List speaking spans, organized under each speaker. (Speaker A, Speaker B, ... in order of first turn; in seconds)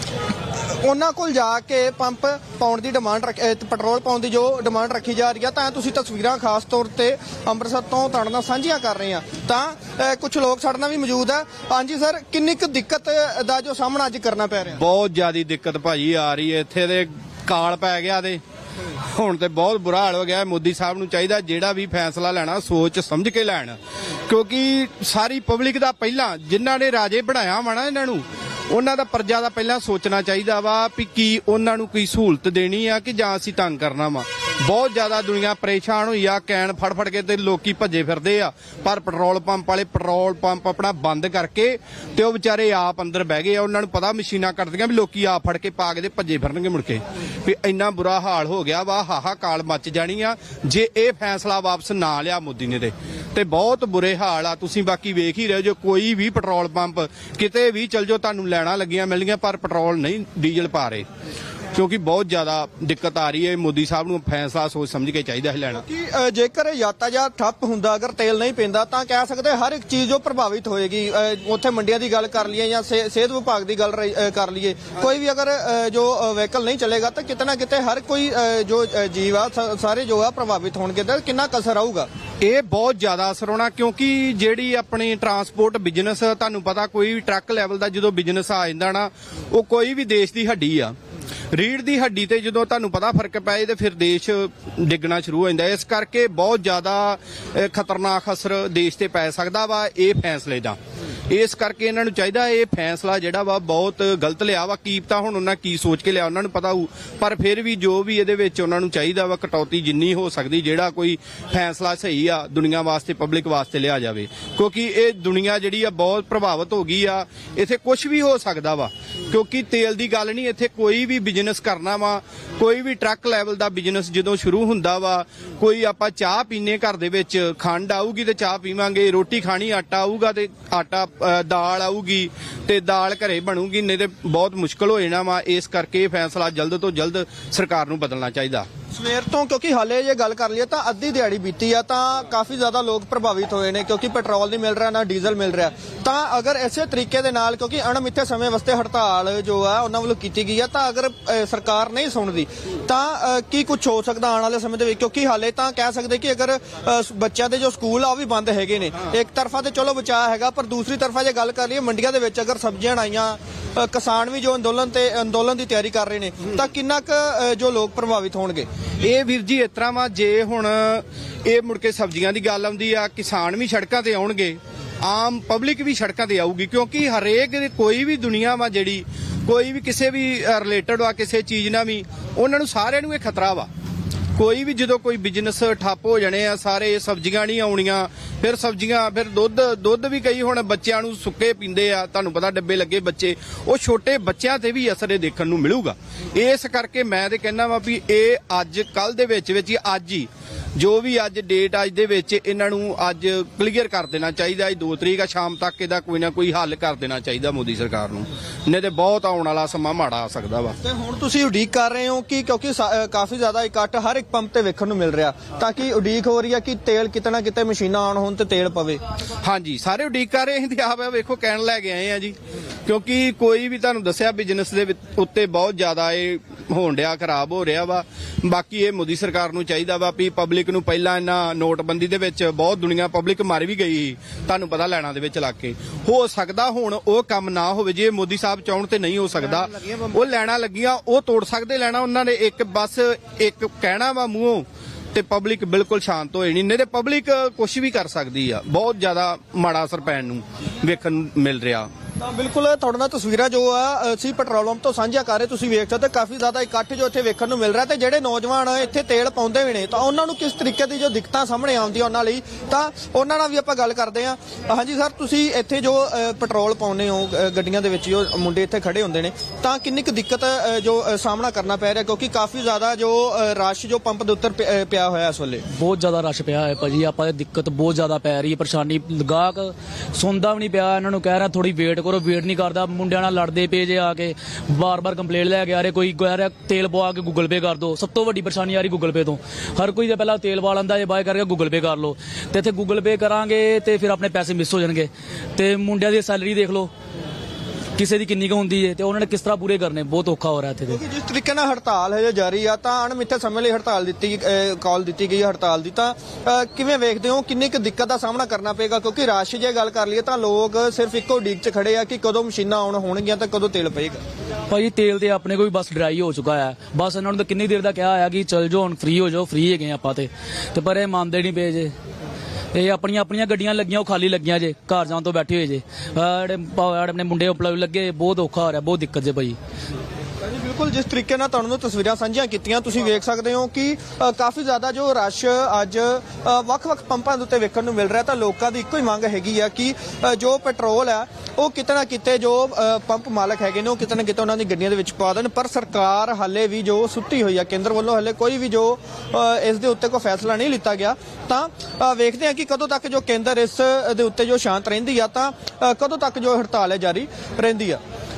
Speaker A: 0.6-14.8, 65.7-82.1, 138.9-168.7, 210.8-219.0, 252.2-275.6, 300.9-314.2, 330.5-358.0
Speaker B: 14.8-18.4, 19.0-23.8, 24.3-61.1, 61.7-65.8, 82.4-91.0, 91.5-100.8, 101.3-138.7, 169.0-183.7, 184.4-210.8, 219.4-251.9
Speaker C: 275.8-296.9, 298.0-301.0, 314.7-321.9, 322.7-329.6